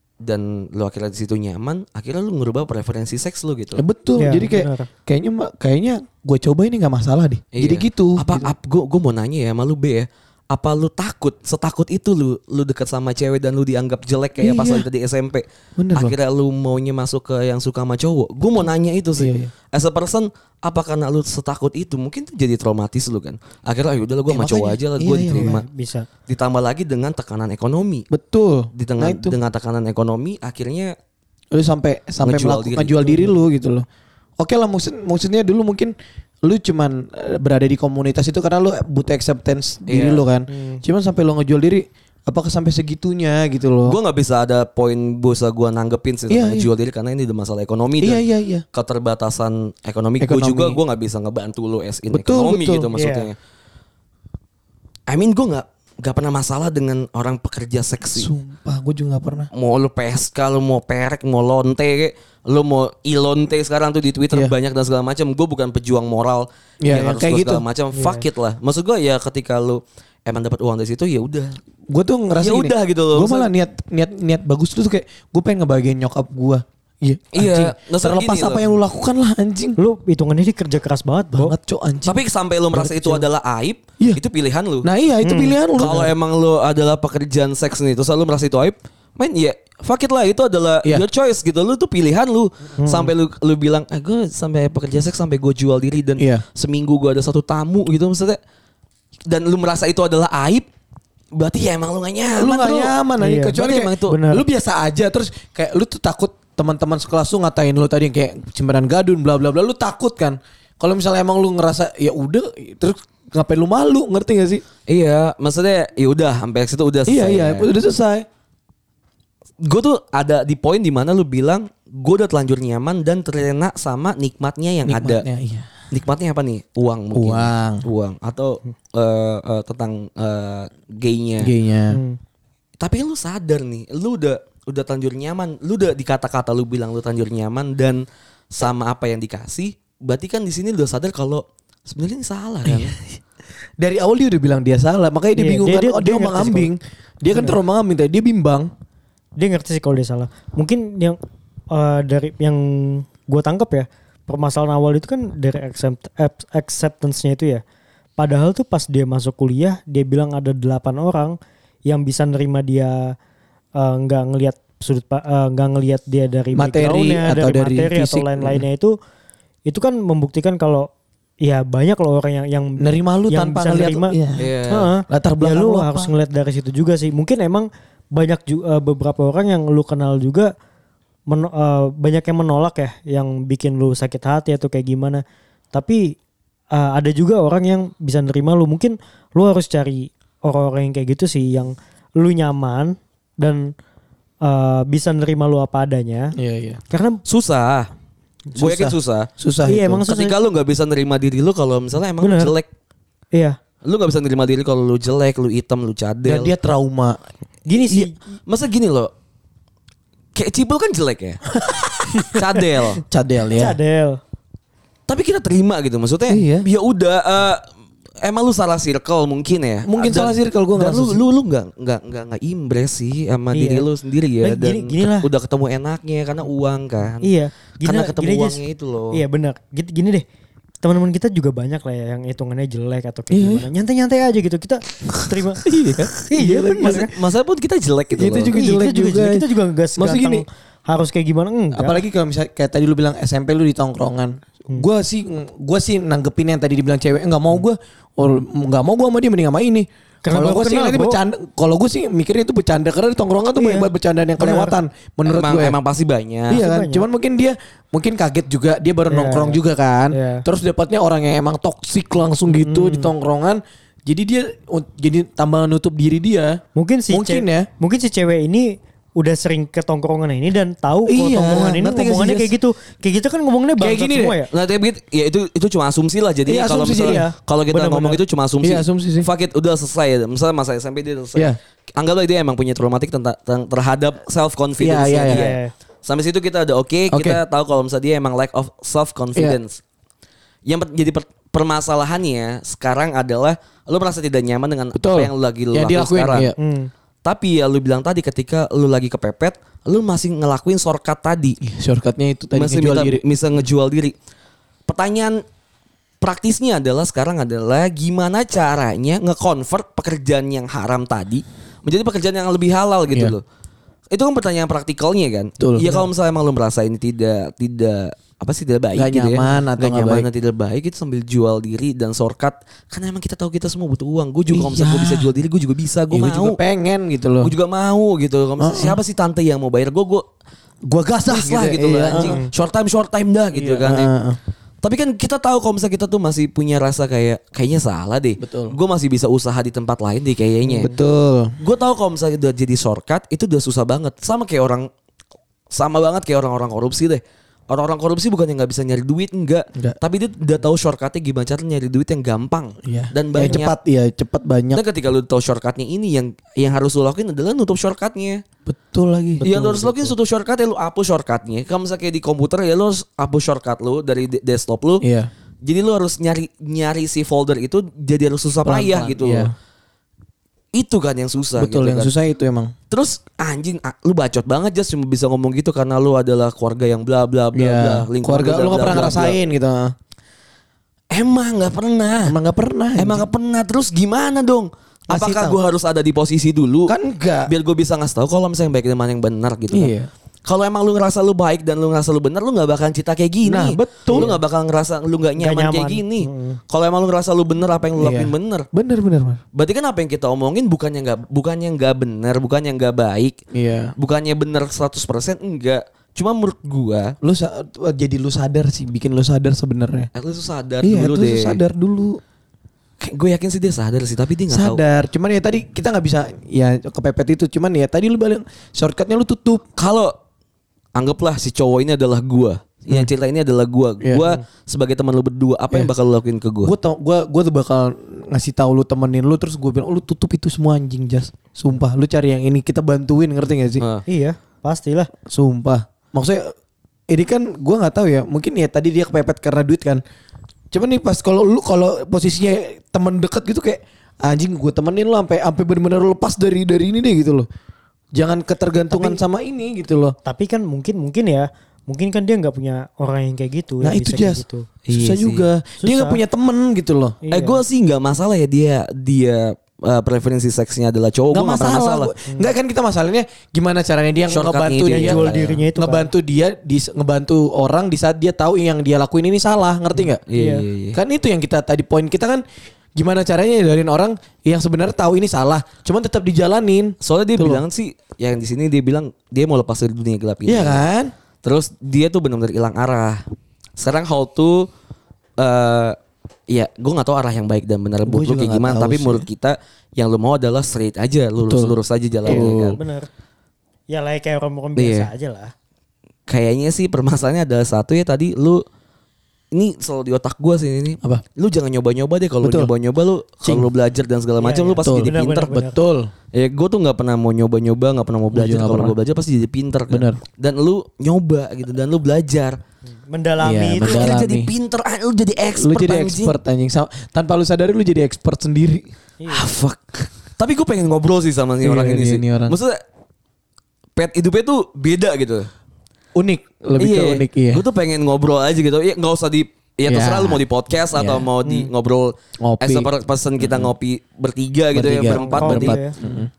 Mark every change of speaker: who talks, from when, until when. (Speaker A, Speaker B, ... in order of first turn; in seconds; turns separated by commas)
Speaker A: 0.2-3.8, Speaker B: 3.8-8.5, Speaker C: 4.2-4.9, Speaker A: 7.5-25.6, Speaker B: 14.4-14.8, Speaker B: 15.8-16.1, Speaker B: 19.2-19.5, Speaker B: 24.4-25.6, Speaker C: 25.3-26.1, Speaker A: 26.3-28.1, Speaker B: 28.1-29.4, Speaker A: 28.7-30.9, Speaker B: 31.5-33.9, Speaker A: 32.2-33.2, Speaker B: 34.4-35.9, Speaker B: 36.4-44.0, Speaker A: 39.9-40.2, Speaker C: 40.5-40.8, Speaker A: 43.8-53.3, Speaker B: 46.3-46.7, Speaker B: 48.0-48.6, Speaker B: 50.2-50.8, Speaker B: 52.1-52.9, Speaker C: 52.9-53.3, Speaker A: 55.1-58.3, Speaker B: 58.1-59.5, Speaker A: 59.5-71.5, Speaker B: 66.8-67.6, Speaker C: 67.9-68.2, Speaker B: 71.9-79.8, Speaker A: 72.4-73.5, Speaker A: 77.3-78.7, Speaker C: 79.8-81.5, Speaker B: 81.3-82.2, Speaker A: 82.0-84.9, Speaker B: 82.7-83.2, Speaker B: 84.8-86.1, Speaker C: 85.2-85.5, Speaker A: 85.8-98.4, Speaker C: 92.8-93.1, Speaker B: 96.2-96.4, Speaker A: 99.3-100.7, Speaker A: 101.3-102.9, Speaker B: 102.3-114.6, Speaker C: 103.2-104.4, Speaker A: 103.5-104.2, Speaker A: 114.9-117.7, Speaker B: 117.0-118.2, Speaker A: 119.6-125.2, Speaker B: 124.8-125.7, Speaker A: 125.9-131.5, Speaker B: 127.1-127.8, Speaker B: 131.4-132.0, Speaker C: 131.9-132.2, Speaker A: 132.8-142.9, Speaker B: 142.6-143.0, Speaker B: 143.8-148.7, Speaker C: 145.4-146.7, Speaker C: 149.4-151.2, Speaker C: 151.7-157.6, Speaker C: 158.2-163.1, Speaker C: 163.8-168.9, Speaker B: 166.5-168.6, Speaker C: 169.7-170.9, Speaker C: 171.4-174.1, Speaker B: 172.8-174.5, Speaker A: 174.4-174.9, Speaker C: 174.7-180.5, Speaker B: 175.1-176.1, Speaker C: 181.3-186.2, Speaker C: 186.7-193.7, Speaker C: 194.4-196.3, Speaker B: 196.4-196.8, Speaker C: 196.9-197.2, Speaker A: 197.3-197.9, Speaker A: 198.6-199.3, Speaker B: 198.6-200.0, Speaker C: 199.7-200.4, Speaker A: 200.1-202.7, Speaker C: 202.2-202.5, Speaker A: 203.8-206.5, Speaker B: 206.2-207.2, Speaker C: 207.7-208.1, Speaker A: 207.9-209.1, Speaker A: 210.3-213.0, Speaker B: 213.1-213.8, Speaker C: 213.5-214.2, Speaker A: 215.1-217.6, Speaker B: 216.3-216.7, Speaker A: 218.2-227.3, Speaker B: 219.8-221.2, Speaker C: 223.5-223.8, Speaker C: 224.4-225.3, Speaker C: 227.2-228.6, Speaker A: 227.8-229.2, Speaker C: 229.1-230.2, Speaker C: 230.8-235.6, Speaker B: 233.3-233.7, Speaker B: 235.1-237.1, Speaker C: 236.3-237.1, Speaker A: 236.8-238.5, Speaker B: 238.1-239.4, Speaker C: 238.5-242.0, Speaker B: 240.0-240.4, Speaker B: 241.7-255.8, Speaker C: 250.2-251.2, Speaker C: 253.6-254.8, Speaker A: 255.2-256.6, Speaker B: 256.5-266.6, Speaker C: 256.5-257.1, Speaker C: 259.1-259.6, Speaker C: 260.1-260.4, Speaker C: 262.5-263.1, Speaker C: 266.8-274.5, Speaker B: 267.1-267.7, Speaker B: 271.1-272.5, Speaker B: 273.8-274.4, Speaker A: 274.5-289.8, Speaker B: 276.5-277.2, Speaker C: 277.0-278.2, Speaker B: 278.6-279.3, Speaker B: 284.8-285.5, Speaker C: 285.3-285.7, Speaker B: 287.1-287.4, Speaker A: 290.6-296.5, Speaker B: 294.9-296.6, Speaker C: 296.6-296.9, Speaker A: 297.2-301.6, Speaker B: 301.6-303.2, Speaker A: 302.6-304.1, Speaker A: 304.9-305.4, Speaker A: 306.2-313.4, Speaker A: 314.1-326.6, Speaker B: 315.6-316.1, Speaker B: 318.9-320.3, Speaker B: 324.5-325.3, Speaker B: 326.1-327.5, Speaker A: 327.4-330.2, Speaker B: 328.6-329.0, Speaker B: 330.9-332.4, Speaker A: 331.3-334.1, Speaker C: 332.1-332.5, Speaker B: 333.5-334.4, Speaker A: 334.8-340.9, Speaker B: 338.4-338.8, Speaker B: 340.6-341.5, Speaker A: 341.6-344.9, Speaker A: 345.7-353.7, Speaker B: 352.8-354.8, Speaker A: 354.7-358.4, Speaker B: 358.6-360.1, Speaker A: 359.4-365.0, Speaker B: 365.0-365.3, Speaker A: 365.6-369.5, Speaker B: 368.6-369.5, Speaker A: 370.7-372.1, Speaker B: 371.6-372.7, Speaker A: 372.9-379.4, Speaker B: 377.5-379.9, Speaker A: 381.1-382.4, Speaker B: 382.2-383.3, Speaker A: 383.0-386.9, Speaker B: 385.1-385.6, Speaker B: 386.9-387.5, Speaker A: 387.5-389.9, Speaker B: 389.7-390.1, Speaker A: 390.4-398.7, Speaker B: 393.4-394.4, Speaker C: 394.1-394.4, Speaker C: 395.4-396.6, Speaker B: 398.0-399.4, Speaker A: 399.5-403.4, Speaker B: 403.5-403.9, Speaker A: 404.0-407.1, Speaker B: 407.2-410.1, Speaker A: 410.1-411.6, Speaker B: 410.8-412.2, Speaker A: 413.0-414.8, Speaker B: 414.5-419.6, Speaker A: 419.8-420.1, Speaker A: 420.9-426.7, Speaker B: 424.0-424.3, Speaker B: 426.6-433.8, Speaker C: 434.1-435.1, Speaker B: 435.3-436.5, Speaker B: 437.1-440.0, Speaker B: 440.7-447.5, Speaker B: 448.1-450.1, Speaker C: 450.2-454.7, Speaker B: 453.8-457.2, Speaker A: 454.9-455.5, Speaker C: 455.8-456.2, Speaker C: 457.2-457.6, Speaker A: 457.3-462.1, Speaker B: 461.3-470.2, Speaker A: 464.3-465.6, Speaker C: 464.9-466.1, Speaker A: 470.3-471.0, Speaker C: 470.3-470.6, Speaker B: 470.9-472.4, Speaker B: 472.9-477.6, Speaker A: 477.0-480.8, Speaker B: 480.4-481.1, Speaker A: 481.4-483.2, Speaker A: 483.8-484.7, Speaker A: 485.4-486.0, Speaker A: 486.5-492.8, Speaker B: 488.0-489.2, Speaker B: 491.4-492.8, Speaker C: 492.3-493.1, Speaker C: 493.9-495.5, Speaker A: 494.8-495.1, Speaker A: 496.3-498.6, Speaker A: 499.5-505.5, Speaker B: 502.4-502.7, Speaker B: 503.4-503.7, Speaker C: 504.4-505.8, Speaker B: 504.8-506.1, Speaker A: 506.3-512.6, Speaker B: 508.3-508.9, Speaker B: 509.9-510.2, Speaker C: 513.1-514.1, Speaker B: 513.4-514.5, Speaker A: 513.8-516.4, Speaker B: 515.5-518.9, Speaker C: 519.2-519.5, Speaker A: 519.3-522.8, Speaker B: 521.6-522.5, Speaker A: 524.0-525.5, Speaker B: 526.1-527.6, Speaker A: 526.8-535.8, Speaker B: 529.9-530.4, Speaker B: 530.9-531.3, Speaker C: 531.4-531.7, Speaker B: 532.4-532.9, Speaker B: 533.4-533.7, Speaker B: 534.7-536.3, Speaker C: 535.1-535.9